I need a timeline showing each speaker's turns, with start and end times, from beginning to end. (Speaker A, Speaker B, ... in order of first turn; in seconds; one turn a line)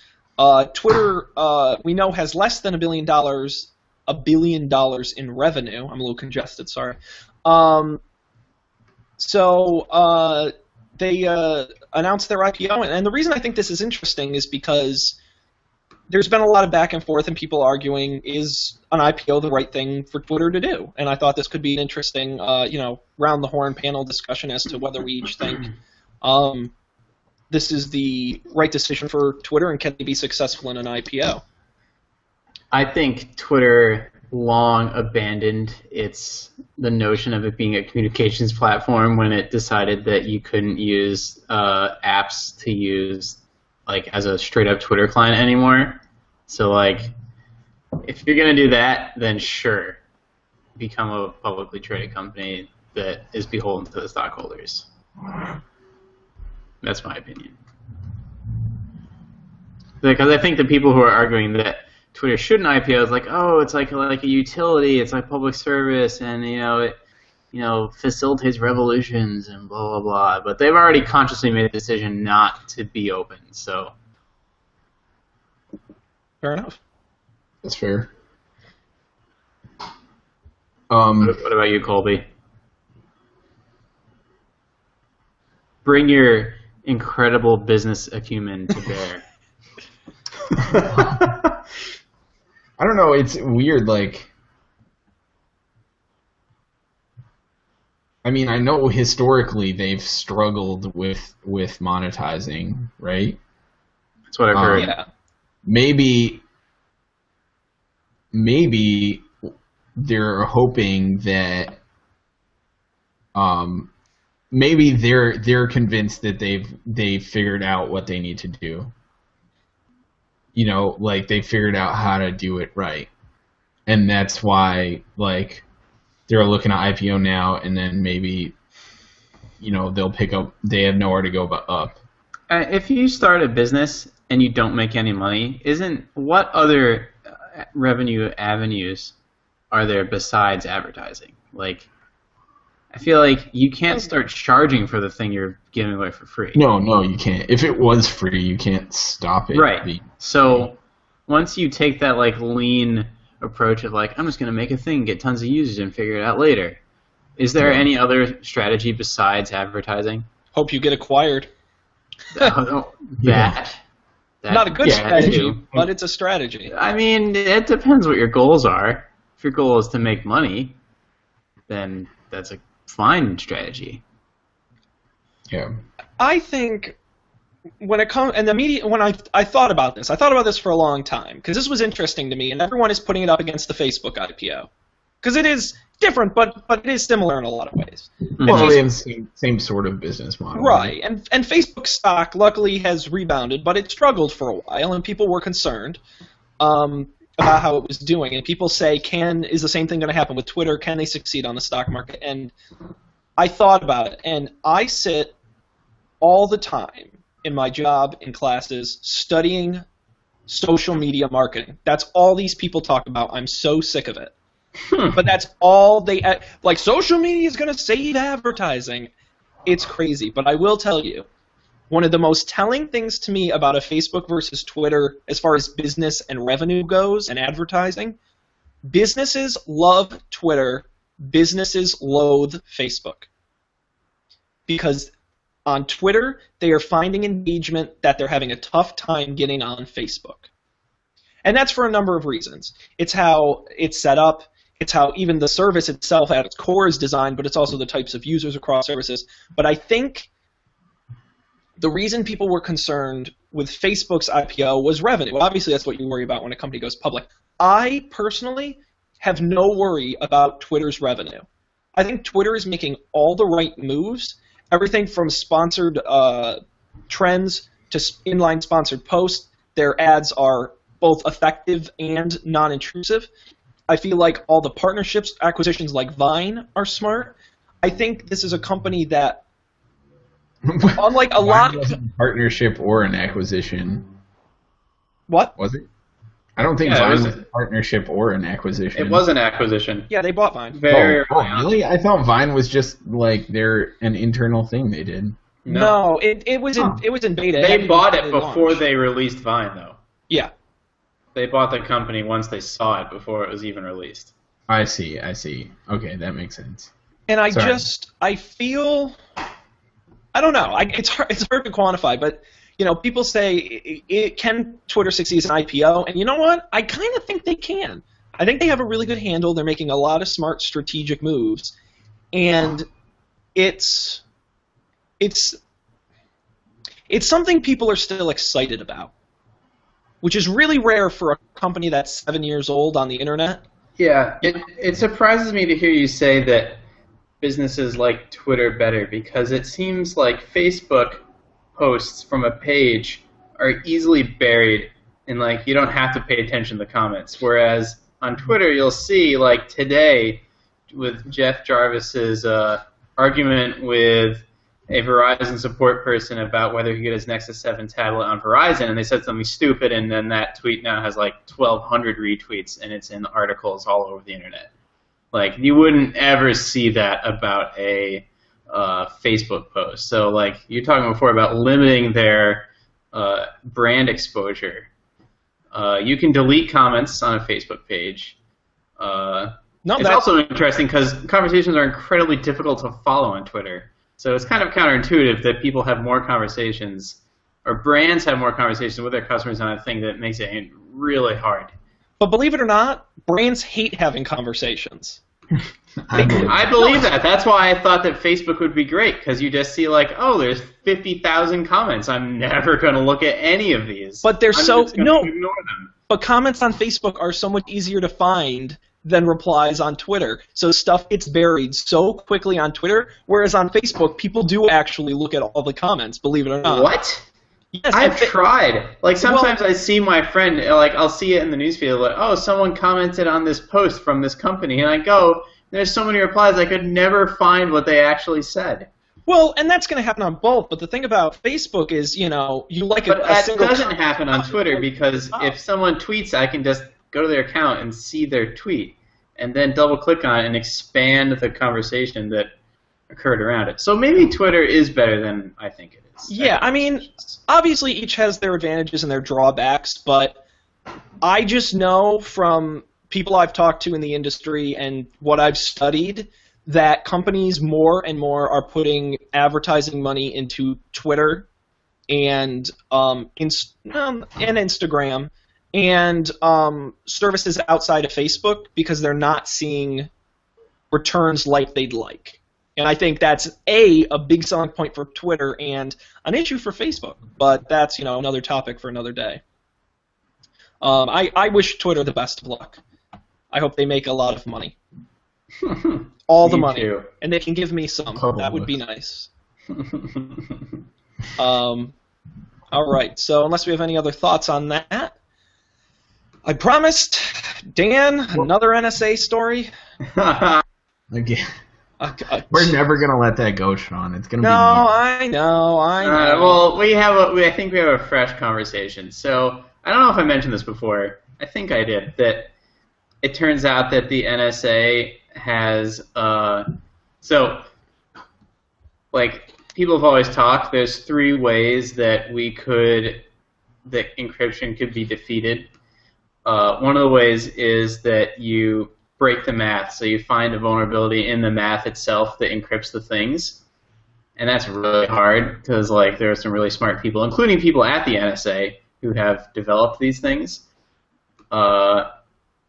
Speaker A: 0.4-8.0
Speaker A: 9.2-15.2
Speaker A: 16.1-25.7
Speaker A: 26.2-26.7
Speaker A: 27.5-31.4
Speaker B: 32.7-47.1
Speaker B: 48.0-50.0
Speaker B: 50.8-54.9
Speaker B: 56.8-57.6
Speaker B: 60.0-67.0
Speaker B: 67.5-73.9
Speaker A: 76.4-76.8
Speaker C: 77.6-78.1
Speaker C: 80.9-81.4
Speaker B: 81.2-82.2
Speaker B: 85.8-89.2
Speaker B: 90.5-91.5
Speaker C: 92.8-94.3
Speaker C: 98.2-103.4
Speaker B: 104.3-104.9
Speaker C: 104.5-104.9
Speaker A: 104.7-105.0
Speaker C: 105.7-106.4
Speaker C: 108.3-109.3
Speaker C: 110.0-111.8
Speaker C: 113.3-113.9
Speaker C: 114.5-118.9
Speaker C: 120.5-123.1
Speaker C: 123.9-125.6
Speaker C: 126.3-128.6
Speaker C: 129.6-132.0
Speaker B: 132.5-139.1
Speaker B: 139.7-141.9
Speaker B: 142.9-146.6
Speaker C: 146.5-150.7
Speaker B: 149.5-150.8
Speaker B: 151.3-156.8
Speaker B: 157.4-160.3
Speaker C: 157.6-157.9
Speaker A: 160.5-161.5
Speaker B: 162.3-163.8
Speaker C: 163.2-163.6
Speaker B: 164.4-165.6
Speaker A: 164.5-166.7
Speaker C: 164.8-165.9
Speaker B: 166.7-170.8
Speaker B: 171.7-174.0
Speaker C: 175.5-175.7
Speaker A: 176.2-177.0
Speaker A: 177.8-184.7
Speaker A: 185.2-188.8
Speaker B: 188.4-188.8
Speaker C: 188.4-190.9
Speaker A: 190.5-196.0
Speaker A: 196.6-202.5
Speaker A: 203.4-205.3
Speaker A: 206.2-209.8
Speaker A: 210.5-214.3
Speaker B: 214.9-215.2
Speaker A: 215.1-219.1
Speaker A: 219.7-221.2
Speaker A: 221.9-228.2
Speaker A: 228.8-233.3
Speaker A: 234.7-235.1
Speaker A: 235.7-240.5
Speaker A: 241.4-250.3
Speaker A: 251.8-261.4
Speaker A: 261.9-273.3
Speaker A: 273.9-279.4
Speaker C: 280.6-284.1
Speaker A: 280.9-281.9
Speaker A: 285.3-285.5
Speaker C: 285.6-285.9
Speaker C: 286.6-289.2
Speaker B: 286.8-287.4
Speaker B: 288.9-290.1
Speaker A: 290.1-290.8
Speaker B: 290.7-291.7
Speaker C: 290.9-295.4
Speaker B: 295.6-296.0
Speaker A: 295.7-298.8
Speaker C: 296.8-297.0
Speaker B: 297.6-300.0
Speaker B: 301.3-304.3
Speaker C: 304.7-306.9
Speaker A: 307.3-309.2
Speaker C: 307.5-307.8
Speaker A: 310.3-321.7
Speaker A: 322.3-322.9
Speaker A: 323.5-324.2
Speaker A: 325.2-325.6
Speaker A: 327.1-329.1
Speaker A: 330.2-333.6
Speaker B: 334.0-336.8
Speaker B: 337.4-341.2
Speaker B: 341.8-364.7
Speaker B: 365.3-374.9
Speaker B: 375.7-378.4
Speaker B: 379.0-391.7
Speaker A: 379.8-380.2
Speaker A: 392.2-395.2
Speaker C: 396.1-396.6
Speaker A: 396.1-397.1
Speaker B: 396.2-405.9
Speaker A: 404.2-405.3
Speaker A: 406.1-416.9
Speaker B: 416.6-417.2
Speaker A: 417.7-418.4
Speaker B: 417.9-428.9
Speaker A: 419.2-419.6
Speaker A: 429.3-435.5
Speaker B: 433.1-442.5
Speaker B: 443.1-447.3
Speaker A: 446.3-450.4
Speaker A: 451.2-461.4
Speaker A: 462.1-470.1
Speaker A: 470.9-479.4
Speaker A: 480.8-482.8
Speaker A: 483.5-484.8
Speaker B: 485.6-487.1
Speaker A: 486.3-489.3
Speaker C: 488.1-488.8
Speaker B: 489.7-490.6
Speaker A: 491.4-491.9
Speaker A: 492.7-495.1
Speaker A: 496.4-499.7
Speaker B: 500.0-500.6
Speaker C: 501.1-501.4
Speaker A: 502.0-502.8
Speaker C: 502.5-504.9
Speaker A: 504.4-506.6
Speaker B: 506.0-512.5
Speaker B: 513.2-516.7
Speaker B: 517.2-517.7
Speaker B: 519.1-523.2
Speaker B: 523.9-525.7
Speaker B: 526.4-533.6
Speaker B: 534.4-540.6
Speaker B: 541.5-542.1